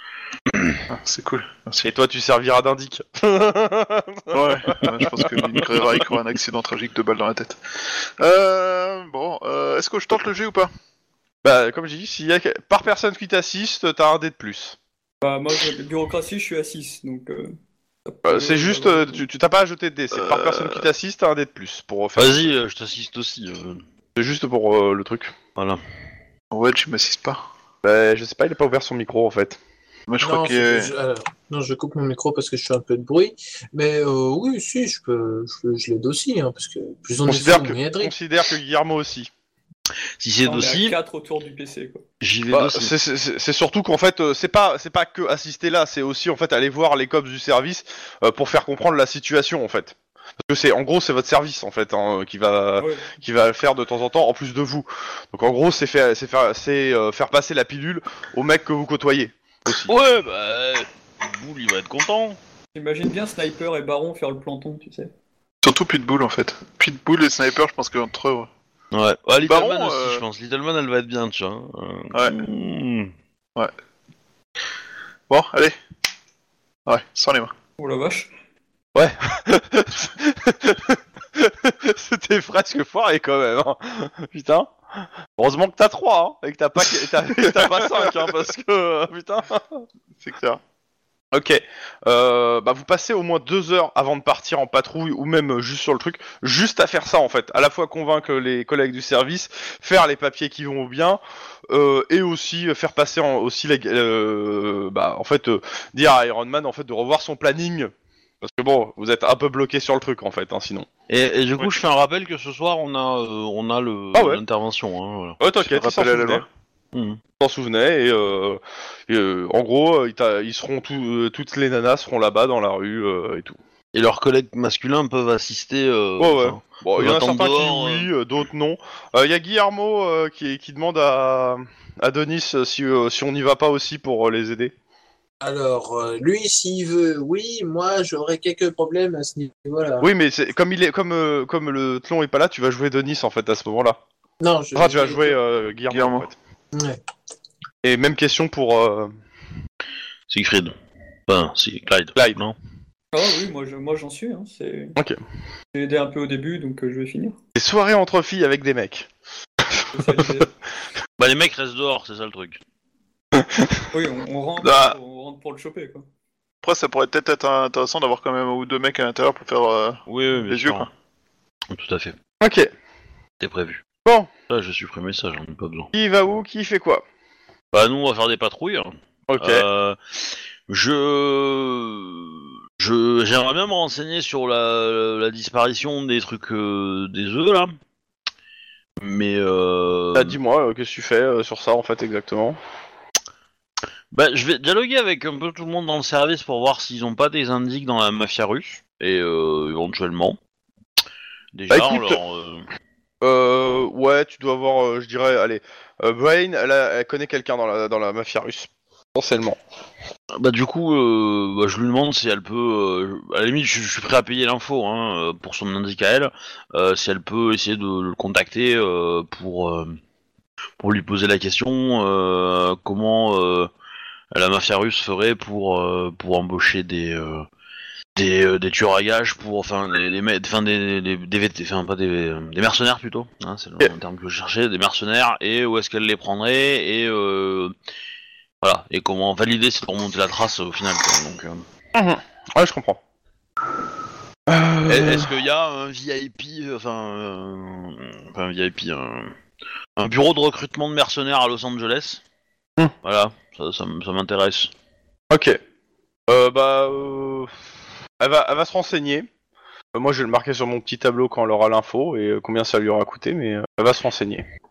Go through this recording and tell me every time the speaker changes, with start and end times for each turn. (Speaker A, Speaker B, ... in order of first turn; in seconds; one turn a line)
Speaker A: 0.5-0.8
Speaker B: 0.9-1.9
Speaker C: 1.8-5.6
Speaker B: 4.3-10.7
Speaker C: 11.4-14.8
Speaker D: 15.2-17.5
Speaker D: 18.1-19.2
Speaker C: 18.2-22.5
Speaker B: 20.1-20.9
Speaker A: 22.1-23.8
Speaker C: 24.1-25.3
Speaker A: 25.6-25.8
Speaker B: 26.5-27.4
Speaker C: 27.8-29.6
Speaker B: 30.1-30.9
Speaker E: 30.2-38.1
Speaker C: 37.2-39.3
Speaker A: 40.2-41.0
Speaker D: 40.5-42.0
Speaker A: 42.2-42.9
Speaker C: 42.5-59.9
Speaker D: 52.8-53.1
Speaker A: 59.8-62.4
Speaker D: 62.7-65.1
Speaker B: 65.6-68.5
Speaker A: 68.9-73.1
Speaker B: 69.4-70.2
Speaker B: 75.3-75.7
Speaker B: 76.8-77.5
Speaker D: 77.8-78.3
Speaker C: 78.9-89.8
Speaker B: 87.8-88.1
Speaker B: 90.2-90.6
Speaker C: 91.3-110.9
Speaker A: 111.1-115.4
Speaker C: 114.1-114.4
Speaker C: 115.4-116.5
Speaker B: 115.6-116.5
Speaker A: 116.9-117.2
Speaker C: 117.4-123.6
Speaker A: 123.9-128.1
Speaker C: 126.2-134.7
Speaker E: 135.4-140.1
Speaker C: 140.0-144.0
Speaker E: 144.4-145.3
Speaker C: 144.7-146.3
Speaker B: 145.9-146.2
Speaker E: 146.7-147.0
Speaker C: 147.8-149.1
Speaker A: 150.3-150.7
Speaker A: 151.3-152.5
Speaker D: 153.1-154.9
Speaker D: 155.7-157.3
Speaker C: 157.5-159.1
Speaker D: 159.9-160.5
Speaker A: 161.2-162.6
Speaker C: 163.3-163.8
Speaker D: 163.9-166.0
Speaker B: 164.6-164.9
Speaker B: 166.6-170.9
Speaker A: 170.1-170.9
Speaker A: 171.7-172.2
Speaker C: 172.4-172.7
Speaker A: 173.4-173.8
Speaker A: 174.5-175.9
Speaker C: 175.9-177.0
Speaker A: 177.7-187.7
Speaker C: 179.3-179.6
Speaker A: 189.0-190.4
Speaker C: 190.1-192.6
Speaker A: 194.1-200.4
Speaker A: 201.5-202.7
Speaker C: 201.7-202.2
Speaker C: 203.2-209.6
Speaker A: 210.3-220.0
Speaker A: 220.8-223.7
Speaker A: 224.3-227.5
Speaker A: 228.2-237.7
Speaker A: 238.6-241.6
Speaker C: 241.9-243.0
Speaker C: 244.5-245.3
Speaker A: 244.8-249.3
Speaker A: 250.0-252.2
Speaker A: 253.0-254.7
Speaker C: 255.3-255.6
Speaker C: 256.3-257.5
Speaker C: 258.2-259.3
Speaker C: 259.9-264.4